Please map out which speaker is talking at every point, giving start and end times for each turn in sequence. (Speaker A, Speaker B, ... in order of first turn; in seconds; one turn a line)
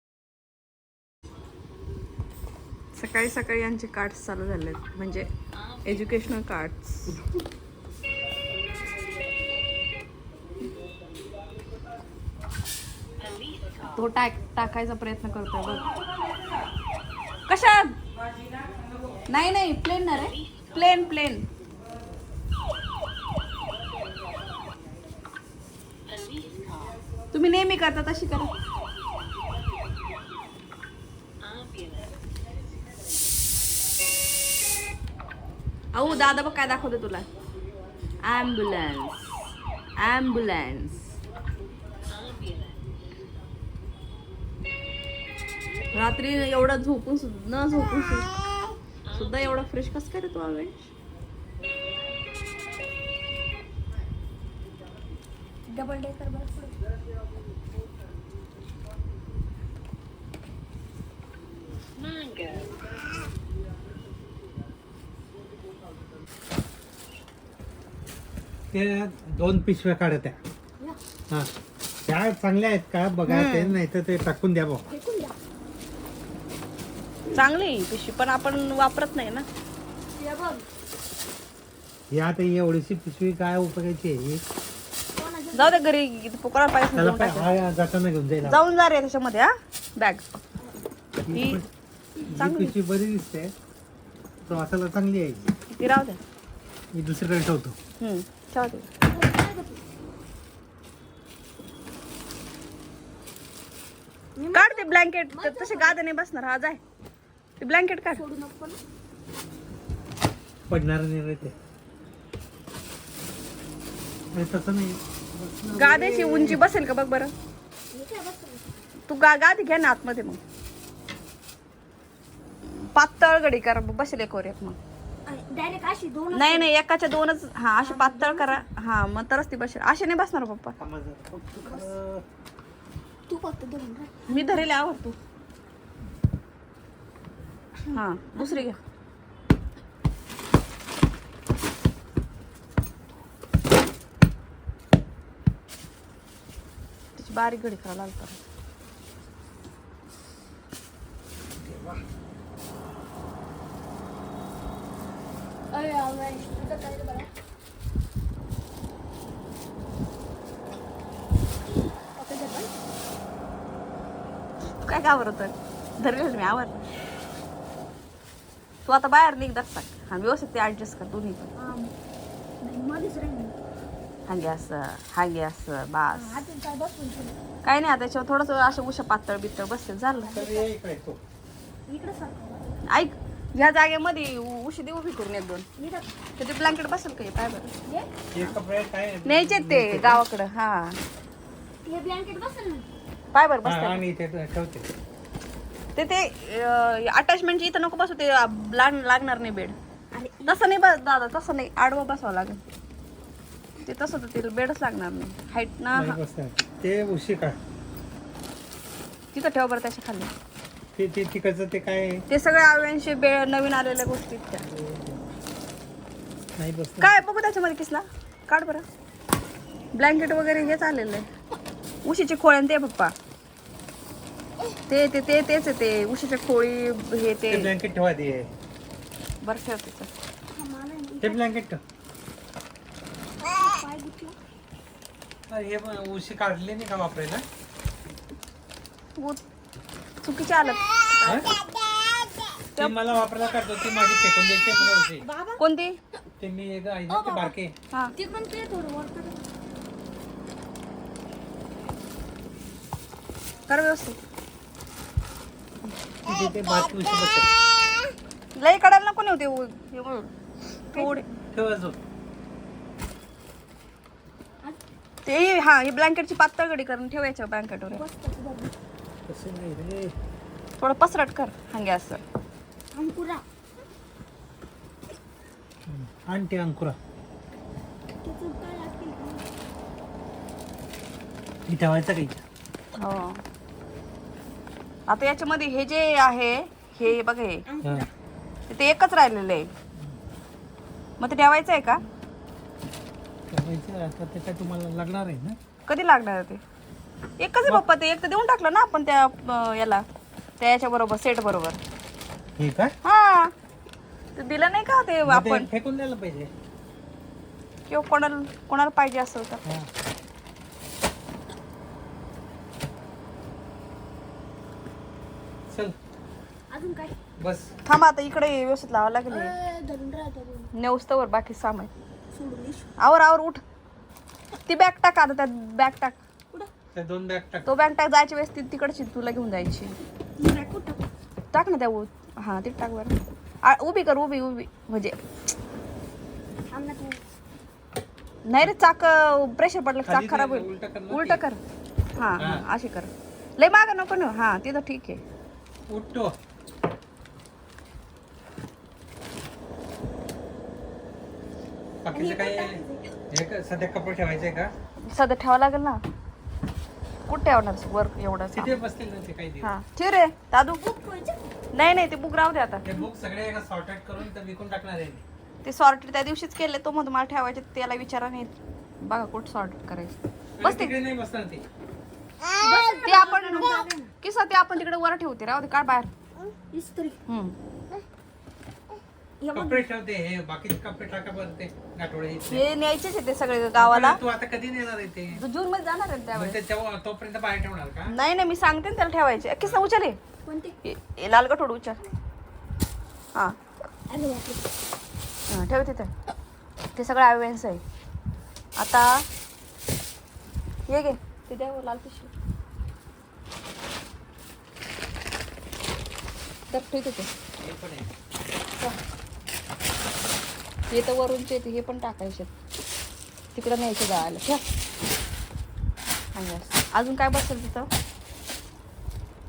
Speaker A: 2.9-5.3
Speaker A: 5.8-7.2
Speaker A: 13.9-15.9
Speaker A: 17.5-17.9
Speaker A: 19.3-21.4
Speaker A: 27.3-28.5
Speaker A: 35.9-37.2
Speaker A: 38.2-39.4
Speaker A: 40.0-41.1
Speaker A: 45.9-48.3
Speaker A: 49.1-50.9
Speaker B: 55.7-56.7
Speaker C: 68.7-70.4
Speaker C: 72.0-74.8
Speaker A: 73.3-73.7
Speaker B: 74.9-75.3
Speaker A: 77.3-79.5
Speaker B: 80.2-80.6
Speaker C: 82.1-84.4
Speaker B: 85.2-85.8
Speaker A: 85.5-87.5
Speaker C: 86.9-88.6
Speaker A: 88.4-90.3
Speaker C: 91.2-91.7
Speaker A: 91.3-91.6
Speaker C: 92.3-93.5
Speaker A: 92.3-92.8
Speaker C: 94.4-95.5
Speaker A: 95.7-96.2
Speaker C: 96.9-97.8
Speaker A: 98.0-98.9
Speaker B: 99.1-99.8
Speaker B: 104.3-106.0
Speaker A: 104.5-106.8
Speaker A: 107.6-108.2
Speaker B: 108.1-108.8
Speaker C: 110.7-111.5
Speaker C: 114.3-116.6
Speaker A: 115.7-117.3
Speaker B: 117.9-118.8
Speaker A: 119.1-120.4
Speaker A: 122.7-124.8
Speaker B: 125.2-126.7
Speaker A: 126.3-130.8
Speaker B: 127.8-128.6
Speaker C: 130.8-132.2
Speaker B: 131.6-131.9
Speaker B: 133.3-134.7
Speaker A: 134.3-135.2
Speaker B: 137.8-138.7
Speaker A: 137.9-138.8
Speaker A: 147.2-148.4
Speaker C: 151.6-152.0
Speaker B: 155.7-157.3
Speaker B: 162.2-162.8
Speaker A: 164.8-166.8
Speaker A: 168.8-171.5
Speaker B: 171.6-171.9
Speaker B: 172.6-173.5
Speaker A: 174.3-176.4
Speaker B: 176.1-177.4
Speaker A: 177.6-180.3
Speaker B: 180.2-180.7
Speaker C: 180.3-181.2
Speaker B: 181.9-182.8
Speaker A: 182.8-185.6
Speaker B: 185.8-186.1
Speaker A: 186.4-187.7
Speaker C: 188.3-190.2
Speaker A: 189.2-191.0
Speaker B: 191.8-192.9
Speaker A: 193.3-194.0
Speaker C: 193.6-194.9
Speaker A: 195.9-199.8
Speaker B: 200.1-200.6
Speaker A: 200.4-202.6
Speaker A: 203.8-206.2
Speaker C: 205.9-207.6
Speaker A: 209.3-210.3
Speaker C: 210.9-212.2
Speaker A: 212.3-214.6
Speaker C: 214.6-215.3
Speaker C: 216.6-217.2
Speaker A: 217.0-218.8
Speaker A: 219.9-221.3
Speaker A: 222.0-223.1
Speaker A: 224.9-227.7
Speaker C: 227.5-228.5
Speaker A: 229.4-230.1
Speaker B: 230.5-231.4
Speaker C: 231.2-231.8
Speaker B: 233.4-234.3
Speaker C: 235.5-237.4
Speaker A: 239.2-239.4
Speaker A: 240.2-241.5
Speaker C: 242.8-245.2
Speaker B: 245.2-245.6
Speaker A: 245.6-246.0
Speaker C: 246.4-247.7
Speaker B: 247.1-247.5
Speaker B: 248.2-249.4
Speaker A: 253.7-254.2
Speaker C: 256.2-257.5
Speaker A: 258.6-260.3
Speaker A: 260.9-261.2
Speaker B: 260.9-261.4
Speaker C: 261.5-262.0
Speaker A: 265.2-268.0
Speaker B: 267.9-268.7
Speaker C: 269.3-270.1
Speaker A: 270.8-272.2
Speaker B: 272.9-273.4
Speaker C: 275.9-277.0
Speaker B: 278.2-279.5
Speaker C: 281.7-282.4
Speaker A: 283.0-283.4
Speaker A: 285.1-287.6
Speaker B: 287.7-288.1
Speaker A: 288.7-289.7
Speaker A: 291.2-292.0
Speaker C: 293.5-295.6
Speaker A: 295.9-296.6
Speaker A: 297.4-300.0
Speaker A: 300.6-301.8
Speaker C: 302.6-302.9
Speaker A: 303.0-303.5
Speaker A: 304.4-305.7
Speaker C: 305.2-306.5
Speaker A: 307.9-309.6
Speaker C: 309.6-309.9
Speaker C: 315.7-315.9
Speaker B: 316.7-317.1
Speaker C: 317.4-317.7
Speaker A: 317.9-319.5
Speaker B: 319.3-320.7
Speaker A: 320.7-321.9
Speaker B: 322.3-322.9
Speaker A: 323.0-323.6
Speaker A: 324.6-326.2
Speaker C: 326.9-327.7
Speaker A: 327.6-330.0
Speaker B: 330.4-331.1
Speaker A: 331.5-335.1
Speaker B: 336.7-337.2
Speaker A: 338.4-341.6
Speaker C: 340.1-341.4
Speaker A: 342.2-345.2
Speaker C: 345.9-346.4
Speaker C: 352.0-354.7
Speaker B: 352.1-353.1
Speaker A: 355.1-356.0
Speaker A: 357.3-358.8
Speaker C: 358.5-359.7
Speaker A: 359.6-360.8
Speaker B: 360.8-361.5
Speaker A: 361.7-362.8
Speaker C: 362.8-365.2
Speaker A: 365.6-371.0
Speaker C: 370.6-371.6
Speaker B: 372.5-374.1
Speaker A: 373.0-376.1
Speaker B: 376.4-377.2
Speaker A: 377.3-377.6
Speaker B: 379.4-379.8
Speaker C: 379.5-382.6
Speaker A: 382.5-384.2
Speaker C: 383.8-385.4
Speaker A: 385.3-386.6
Speaker C: 386.3-388.1
Speaker A: 388.1-390.2
Speaker B: 390.4-390.8
Speaker A: 390.8-392.0
Speaker B: 394.1-394.6
Speaker A: 395.5-396.1
Speaker A: 396.9-397.8
Speaker A: 398.8-399.2
Speaker A: 400.9-402.3
Speaker A: 406.7-407.3
Speaker C: 407.6-408.1
Speaker A: 410.9-412.5
Speaker A: 413.5-414.6
Speaker A: 416.3-417.9